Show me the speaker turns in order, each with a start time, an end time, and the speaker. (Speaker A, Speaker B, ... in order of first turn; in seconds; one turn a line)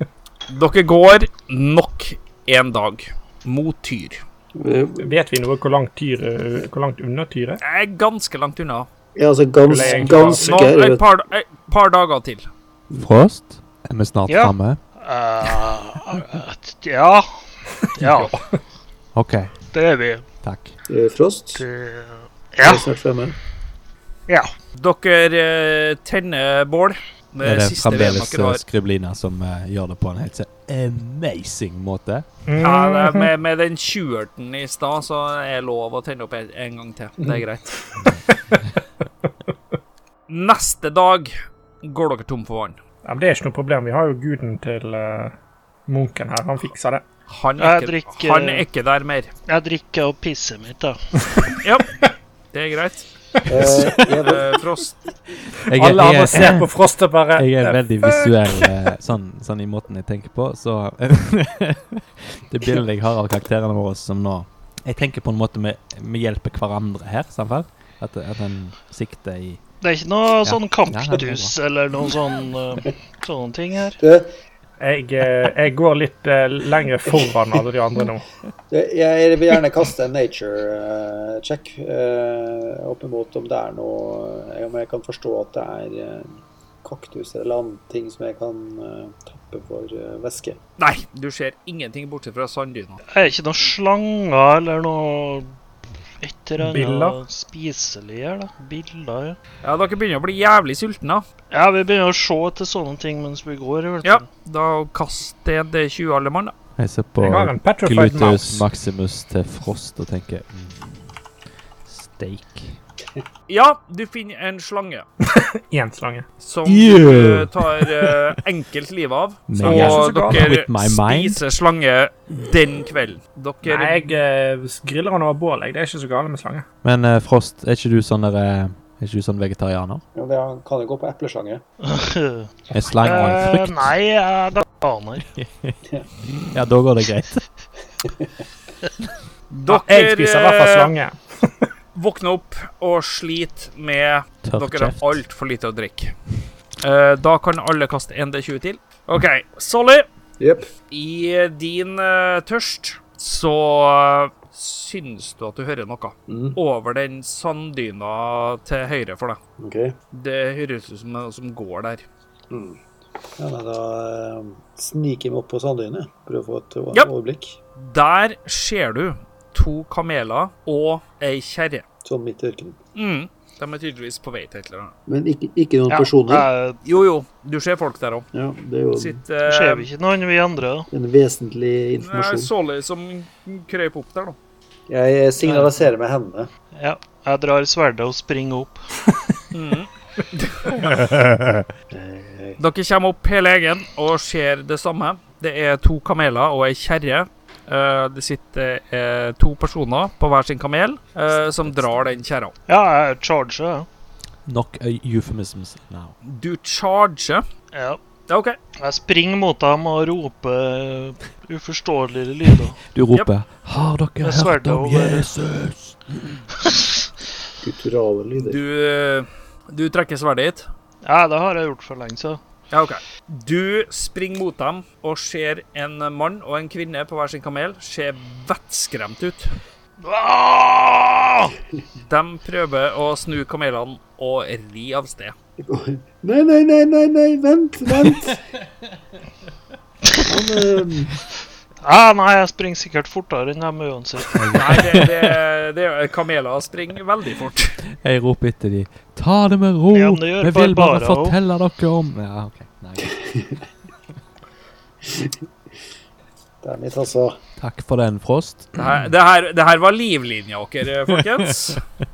Speaker A: 0.5-4.2
Speaker B: 4.5-5.0
Speaker C: 5.0-7.6
Speaker A: 7.6-8.9
Speaker B: 9.2-11.0
Speaker C: 9.7-10.7
Speaker A: 9.8-12.4
Speaker D: 12.9-14.8
Speaker E: 14.3-17.3
Speaker E: 18.0-18.3
Speaker C: 18.0-18.4
Speaker D: 19.1-19.5
Speaker E: 19.7-20.2
Speaker D: 20.4-20.7
Speaker B: 20.9-21.6
Speaker E: 21.5-22.9
Speaker B: 22.6-23.4
Speaker A: 24.8-28.6
Speaker D: 27.4-32.2
Speaker C: 32.5-33.3
Speaker A: 32.6-37.8
Speaker A: 40.3-41.3
Speaker A: 41.8-42.8
Speaker C: 43.0-45.3
Speaker C: 45.9-47.0
Speaker A: 47.3-49.3
Speaker E: 47.6-48.6
Speaker E: 49.5-51.0
Speaker A: 51.6-52.0
Speaker A: 52.5-53.1
Speaker B: 53.5-54.6
Speaker A: 53.6-55.0
Speaker D: 55.6-56.8
Speaker C: 55.7-58.7
Speaker D: 57.3-69.6
Speaker E: 69.8-74.0
Speaker D: 70.4-71.5
Speaker B: 74.0-74.3
Speaker C: 74.8-78.2
Speaker B: 78.7-86.3
Speaker B: 86.8-90.6
Speaker A: 90.8-93.0
Speaker E: 93.1-95.5
Speaker E: 96.2-99.4
Speaker C: 96.6-97.2
Speaker A: 99.6-101.2
Speaker E: 101.5-104.2
Speaker A: 104.0-106.5
Speaker D: 106.8-111.2
Speaker C: 107.2-108.6
Speaker D: 111.8-112.8
Speaker A: 113.5-115.0
Speaker C: 115.2-116.2
Speaker A: 116.4-124.0
Speaker D: 116.6-118.2
Speaker D: 119.5-121.4
Speaker C: 119.6-120.5
Speaker C: 123.6-126.6
Speaker D: 126.8-130.0
Speaker B: 130.1-131.6
Speaker E: 131.8-135.3
Speaker D: 132.7-133.9
Speaker D: 135.3-135.8
Speaker D: 136.4-137.4
Speaker A: 139.5-140.9
Speaker C: 139.7-141.7
Speaker A: 141.9-146.1
Speaker D: 144.4-145.2
Speaker A: 146.8-150.1
Speaker B: 150.4-150.7
Speaker A: 150.9-159.4
Speaker B: 156.3-156.6
Speaker B: 159.6-159.9
Speaker A: 160.1-162.0
Speaker B: 162.5-162.8
Speaker B: 163.4-167.6
Speaker A: 167.8-171.8
Speaker B: 172.0-172.8
Speaker A: 172.9-174.9
Speaker B: 175.1-176.5
Speaker E: 175.9-176.8
Speaker A: 176.8-178.2
Speaker B: 178.3-179.2
Speaker A: 178.9-179.9
Speaker E: 179.4-180.9
Speaker B: 180.9-182.5
Speaker A: 182.0-184.3
Speaker B: 184.9-186.5
Speaker E: 185.4-185.8
Speaker E: 186.7-188.8
Speaker A: 189.5-190.8
Speaker D: 191.1-191.7
Speaker B: 191.9-192.6
Speaker A: 192.6-202.5
Speaker E: 202.7-203.9
Speaker D: 204.4-206.1
Speaker A: 206.2-207.4
Speaker E: 207.7-208.0
Speaker A: 208.3-208.6
Speaker E: 208.8-212.8
Speaker D: 212.9-216.0
Speaker E: 214.2-215.3
Speaker B: 217.6-218.6
Speaker A: 218.4-220.7
Speaker E: 221.0-222.4
Speaker A: 222.7-229.5
Speaker E: 230.0-231.5
Speaker A: 232.1-235.3
Speaker B: 235.6-238.4
Speaker B: 240.2-241.2
Speaker E: 241.8-244.8
Speaker D: 244.3-245.1
Speaker A: 244.5-247.8
Speaker D: 248.0-253.1
Speaker E: 249.9-251.3
Speaker B: 256.6-257.4
Speaker D: 257.6-258.7
Speaker A: 258.8-261.8
Speaker D: 261.1-261.8